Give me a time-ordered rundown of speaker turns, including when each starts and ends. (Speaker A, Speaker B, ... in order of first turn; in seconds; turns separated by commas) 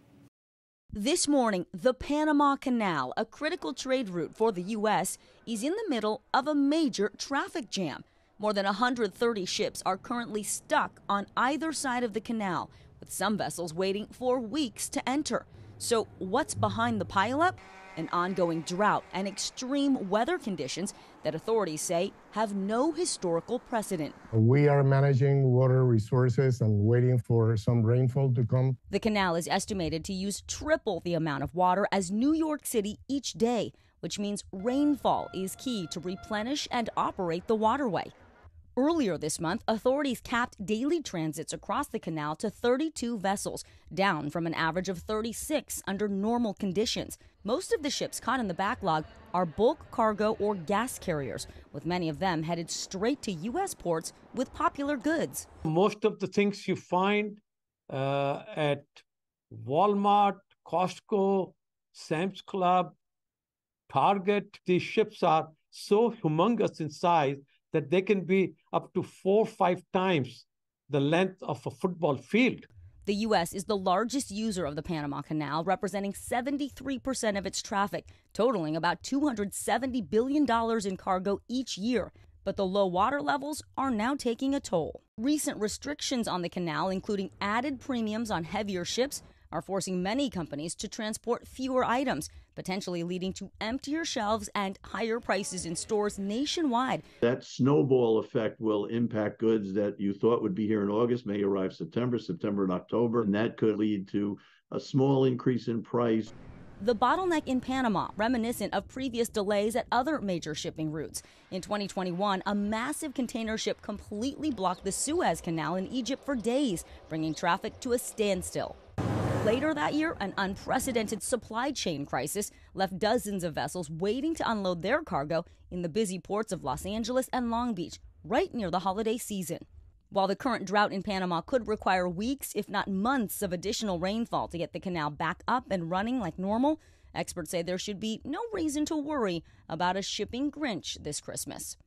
Speaker A: 0.9-24.2, Speaker B: 24.3-28.8, Speaker A: 28.9-38.1, Speaker A: 38.8-55.5, Speaker C: 55.6-63.0, Speaker C: 63.9-72.7, Speaker A: 73.0-97.0, Speaker D: 97.2-106.3, Speaker A: 106.8-118.8, Speaker A: 119.3-141.8